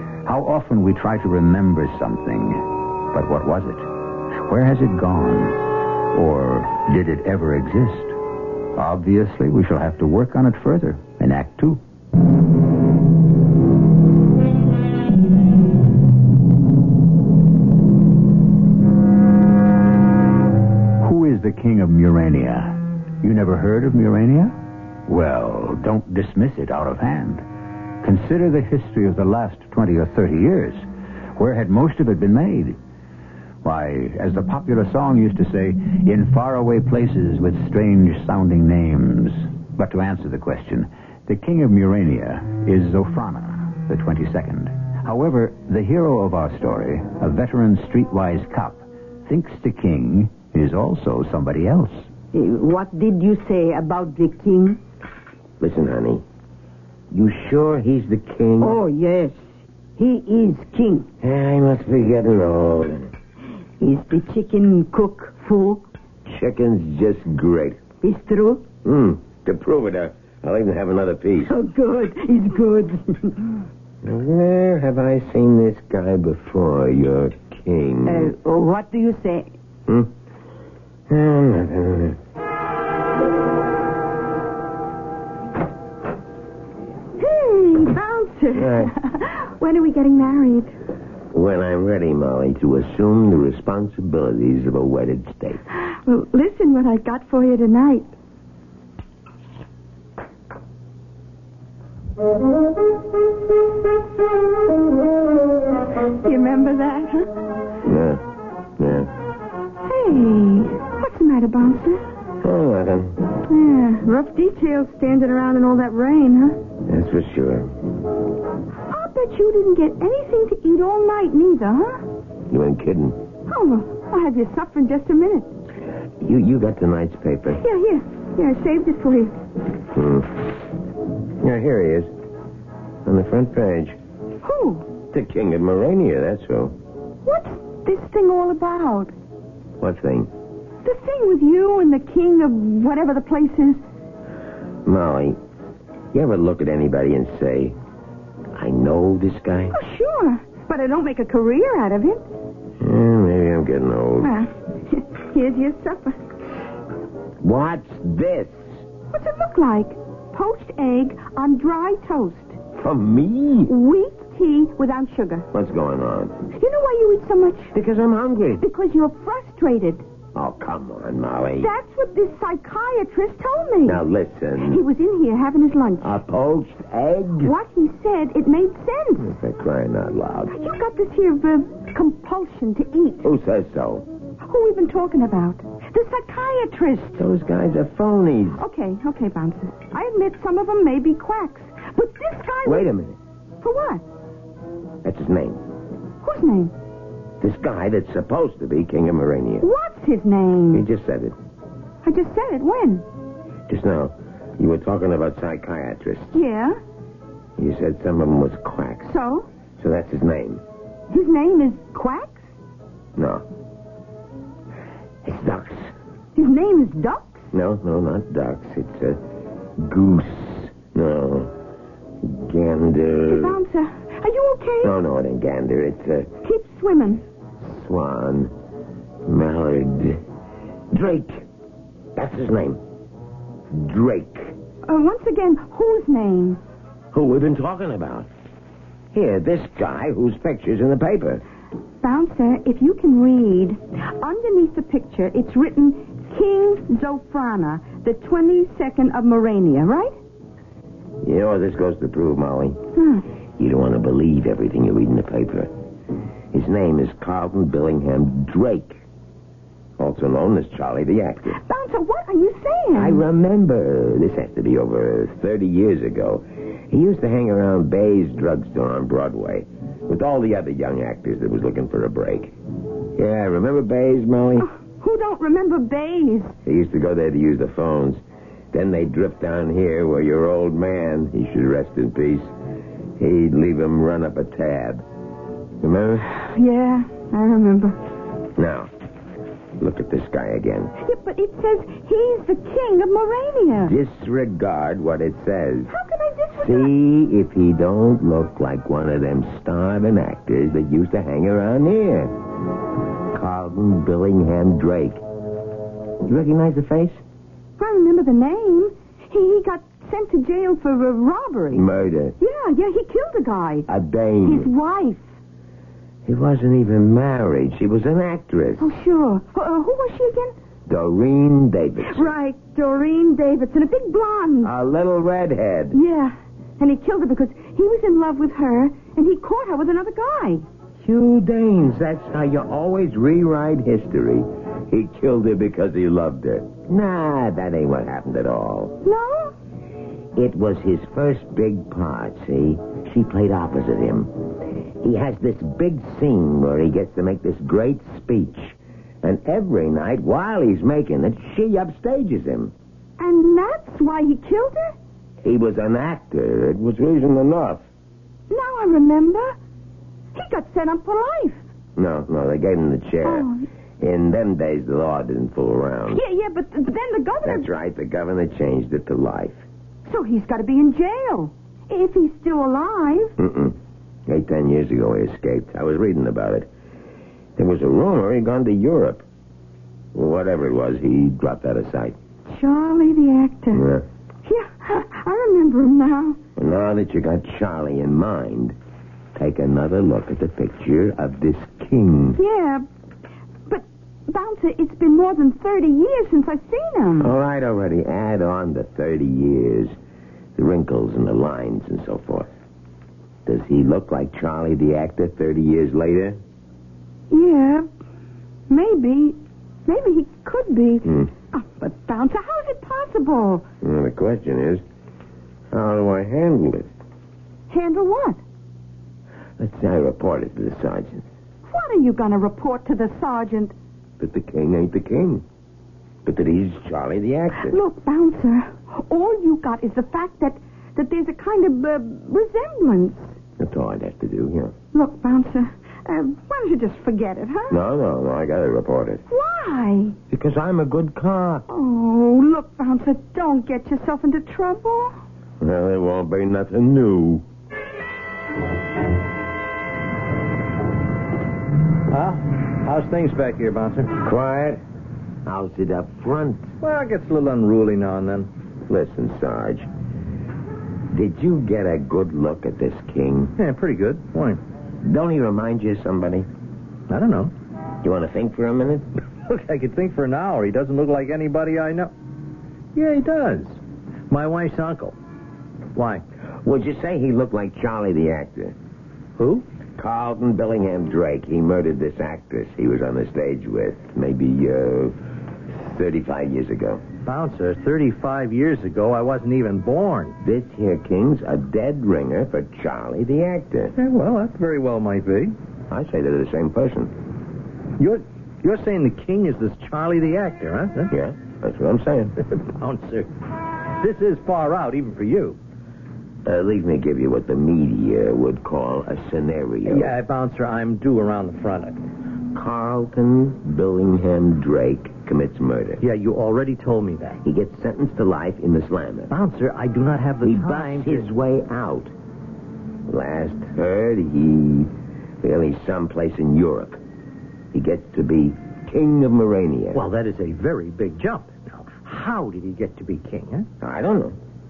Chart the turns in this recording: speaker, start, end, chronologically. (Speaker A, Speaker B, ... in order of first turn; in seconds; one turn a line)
Speaker A: 0.2-5.6
Speaker A: 6.1-8.2
Speaker A: 8.8-11.8
Speaker A: 21.0-24.6
Speaker A: 25.1-27.4
Speaker A: 28.0-30.9
Speaker A: 31.4-32.8
Speaker A: 33.6-52.1
Speaker B: 52.3-54.8
Speaker C: 55.6-56.2
Speaker C: 57.1-58.8
Speaker B: 58.6-59.4
Speaker B: 60.0-61.1
Speaker C: 61.2-63.1
Speaker B: 63.8-65.8
Speaker C: 66.3-67.8
Speaker B: 68.0-68.7
Speaker C: 68.8-71.5
Speaker B: 71.5-73.6
Speaker C: 74.0-78.3
Speaker B: 78.1-79.5
Speaker C: 81.1-82.2
Speaker D: 87.2-90.7
Speaker C: 88.5-88.9
Speaker C: 91.3-95.6
Speaker D: 95.9-98.1
Speaker D: 106.1-107.4
Speaker C: 107.8-108.2
Speaker C: 108.8-109.1
Speaker D: 109.8-112.0
Speaker C: 112.4-113.3
Speaker D: 113.5-116.6
Speaker C: 116.9-117.7
Speaker D: 118.9-122.0
Speaker C: 122.5-123.2
Speaker D: 123.5-125.5
Speaker C: 126.2-127.6
Speaker D: 127.6-129.3
Speaker C: 129.9-130.5
Speaker C: 131.4-132.1
Speaker C: 133.1-134.0
Speaker D: 134.4-134.9
Speaker C: 135.0-136.8
Speaker D: 137.3-139.1
Speaker C: 139.8-140.3
Speaker D: 140.8-143.8
Speaker C: 144.9-145.4
Speaker C: 146.1-147.8
Speaker C: 148.6-149.8
Speaker D: 149.7-152.2
Speaker C: 152.8-154.4
Speaker D: 154.2-156.2
Speaker C: 157.4-158.7
Speaker D: 159.1-162.6
Speaker C: 162.8-163.7
Speaker D: 163.7-165.5
Speaker C: 165.5-166.4
Speaker D: 166.5-167.7
Speaker C: 167.7-168.7
Speaker D: 168.6-170.0
Speaker C: 170.3-171.7
Speaker D: 171.6-174.0
Speaker C: 173.9-174.8
Speaker D: 174.6-176.1
Speaker C: 176.0-177.5
Speaker D: 177.4-179.3
Speaker C: 179.2-180.6
Speaker D: 180.5-183.3
Speaker C: 183.2-184.1
Speaker D: 184.4-187.2
Speaker C: 187.2-188.6
Speaker D: 188.6-192.9
Speaker C: 192.7-193.2
Speaker D: 193.6-194.0
Speaker C: 195.0-195.6
Speaker D: 196.2-196.7
Speaker C: 197.4-199.7
Speaker D: 199.6-200.8
Speaker C: 200.7-201.3
Speaker D: 202.0-203.1
Speaker C: 203.7-206.4
Speaker D: 206.3-206.8
Speaker C: 207.6-209.2
Speaker D: 209.1-209.5
Speaker C: 209.8-210.6
Speaker D: 211.1-212.4
Speaker C: 213.2-213.4
Speaker C: 215.2-215.9
Speaker D: 216.4-217.5
Speaker C: 217.5-219.2
Speaker C: 219.8-221.6
Speaker C: 222.2-223.6
Speaker D: 223.3-224.9
Speaker C: 224.8-226.3
Speaker D: 226.4-227.2
Speaker C: 227.6-228.5
Speaker C: 229.2-230.2
Speaker C: 230.9-231.4
Speaker C: 232.2-232.8
Speaker C: 233.7-234.6
Speaker D: 234.9-236.6
Speaker C: 237.1-238.3
Speaker C: 239.1-241.4
Speaker D: 242.0-250.2
Speaker C: 251.2-252.9
Speaker D: 253.0-253.3
Speaker C: 253.6-255.7
Speaker C: 256.5-259.0
Speaker C: 260.0-261.6
Speaker D: 261.6-263.2
Speaker C: 262.9-272.6
Speaker C: 273.2-274.7
Speaker D: 274.6-276.6
Speaker C: 276.7-282.5
Speaker C: 283.2-285.0
Speaker C: 285.8-286.3
Speaker D: 286.3-288.0
Speaker C: 288.6-288.9
Speaker C: 289.8-290.9
Speaker D: 291.0-293.9
Speaker C: 293.8-295.9
Speaker D: 295.9-296.9
Speaker C: 296.6-302.4
Speaker C: 303.3-305.2
Speaker C: 306.2-307.2
Speaker D: 307.8-311.9
Speaker C: 311.7-312.4
Speaker D: 312.4-313.9
Speaker C: 313.9-314.7
Speaker D: 314.4-315.2
Speaker C: 316.2-318.9
Speaker D: 318.8-320.6
Speaker C: 320.9-322.3
Speaker D: 322.1-324.7
Speaker C: 324.6-326.0
Speaker D: 325.9-330.6
Speaker C: 331.0-339.0
Speaker D: 339.0-339.5
Speaker C: 340.4-352.7
Speaker D: 353.2-355.0
Speaker C: 355.4-357.9
Speaker D: 358.5-359.6
Speaker D: 360.3-361.6
Speaker C: 362.0-363.5
Speaker D: 363.2-363.6
Speaker C: 364.0-366.2
Speaker D: 366.1-367.7
Speaker C: 367.4-369.6
Speaker D: 370.1-373.3
Speaker C: 373.4-373.8
Speaker C: 374.3-376.7
Speaker C: 377.6-379.2
Speaker C: 380.1-382.2
Speaker D: 382.5-383.9
Speaker C: 383.7-384.1
Speaker D: 384.4-386.4
Speaker C: 386.6-388.8
Speaker C: 389.4-392.4
Speaker D: 392.4-392.9
Speaker D: 393.7-397.3
Speaker C: 397.2-399.9
Speaker C: 400.6-402.5
Speaker C: 403.5-406.4
Speaker D: 407.3-407.9
Speaker D: 408.7-413.7
Speaker C: 411.1-411.3
Speaker C: 413.8-414.8
Speaker C: 415.7-416.9
Speaker D: 417.7-418.4
Speaker C: 419.6-421.2
Speaker D: 421.7-423.7
Speaker C: 424.2-425.4
Speaker C: 426.2-427.8
Speaker D: 427.6-433.4
Speaker C: 433.6-434.8
Speaker D: 434.9-437.8
Speaker C: 437.7-439.2
Speaker D: 439.3-440.2
Speaker C: 440.3-441.7
Speaker D: 441.7-445.1
Speaker C: 445.6-447.4
Speaker E: 452.1-454.1
Speaker C: 454.2-454.8
Speaker C: 455.4-456.7
Speaker E: 456.8-458.5
Speaker C: 458.9-459.9
Speaker C: 461.1-463.6
Speaker E: 463.6-464.6
Speaker C: 465.0-466.5
Speaker E: 467.1-467.5
Speaker C: 468.0-469.1
Speaker E: 469.5-472.1
Speaker E: 473.0-473.8
Speaker E: 474.3-475.1
Speaker E: 475.9-476.2
Speaker C: 476.6-478.8
Speaker E: 479.4-479.6
Speaker C: 480.0-485.1
Speaker C: 485.7-487.0
Speaker E: 487.3-490.4
Speaker C: 490.4-493.9
Speaker E: 494.0-495.6
Speaker C: 495.9-497.1
Speaker E: 498.0-501.1
Speaker C: 501.1-502.4
Speaker E: 502.6-503.3
Speaker E: 504.0-505.6
Speaker C: 506.4-510.1
Speaker E: 509.9-512.0
Speaker C: 512.5-516.0
Speaker E: 516.0-517.4
Speaker C: 517.4-519.3
Speaker E: 519.3-521.3
Speaker C: 520.4-522.1
Speaker C: 523.1-527.0
Speaker C: 527.7-530.0
Speaker E: 529.9-533.7
Speaker C: 533.8-534.4